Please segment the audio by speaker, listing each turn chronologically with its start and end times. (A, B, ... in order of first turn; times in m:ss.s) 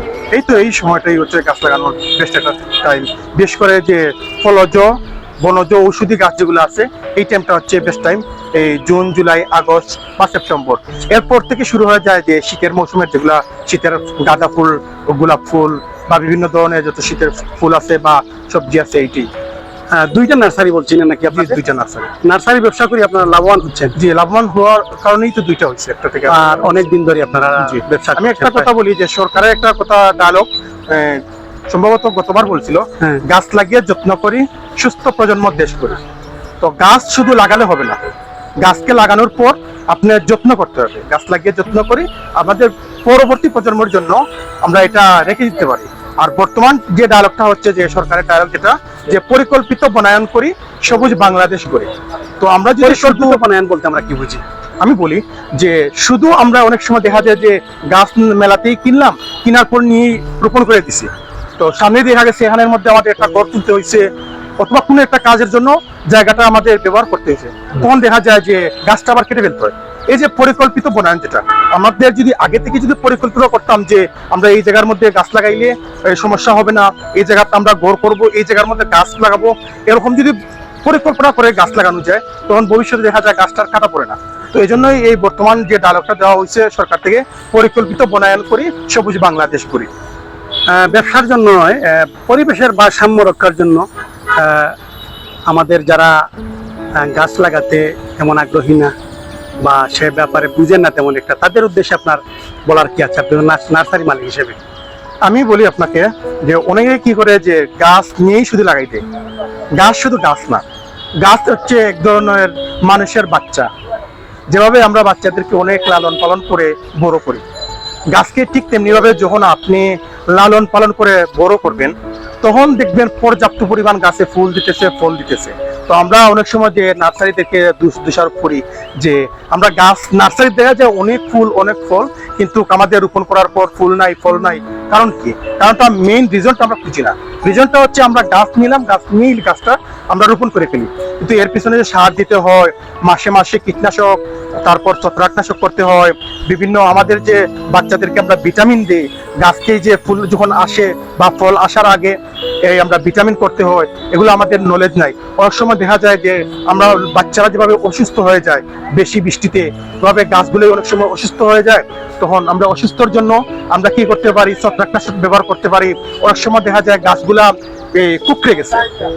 0:00.3-0:19.3 A
0:19.9-0:21.6 B
0:21.3-0:22.1 A
0:22.2-0:24.0 B
0:24.0-0:26.4 A
0:26.3-0:28.7 B
0:27.6-0:36.0 A
0:36.6-0:38.0 A
0:38.6-0:53.4 A
0:52.8-0:54.4 B
0:54.8-1:04.1 A
1:04.6-1:29.9 A
1:30.7-1:33.9 B
1:34.4-1:34.8 B
1:35.5-1:36.2 B
1:37.0-1:38.9 B
1:39.6-1:44.6 B
1:45.2-1:49.0 A
1:49.8-1:50.6 A
1:51.2-1:53.7 A
1:54.5-1:57.4 A
1:58.1-2:48.8 A